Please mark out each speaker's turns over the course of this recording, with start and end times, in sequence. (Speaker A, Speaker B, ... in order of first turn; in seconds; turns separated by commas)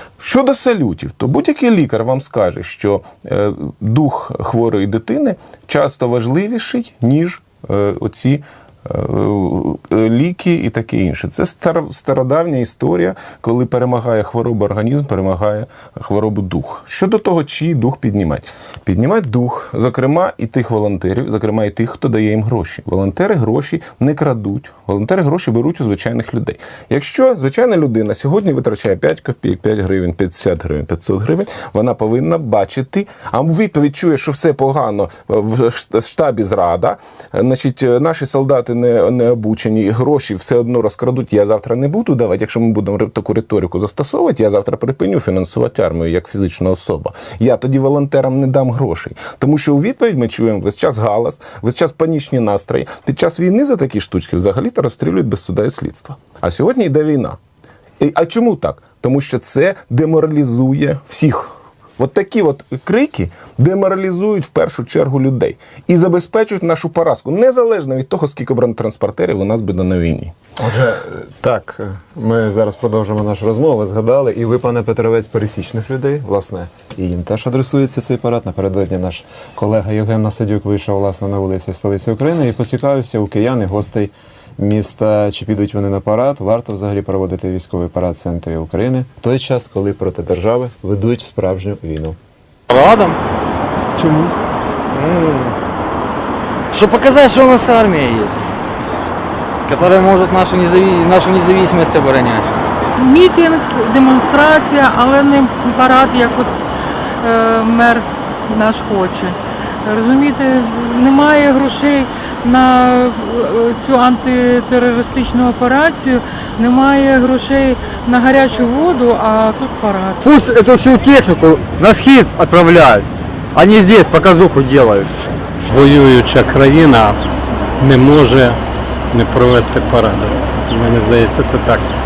Speaker A: 0.2-57.4, Speaker A: 58.0-70.3, Speaker B: 70.6-92.2, Speaker C: 92.7-93.2, Speaker C: 94.0-94.3, Speaker C: 94.9-95.5, Speaker C: 96.7-98.5, Speaker C: 99.7-102.6, Speaker D: 103.0-106.6, Speaker D: 107.2-120.2, Speaker C: 120.2-125.2, Speaker E: 125.7-127.2, Speaker E: 127.8-128.6, Speaker E: 129.1-131.9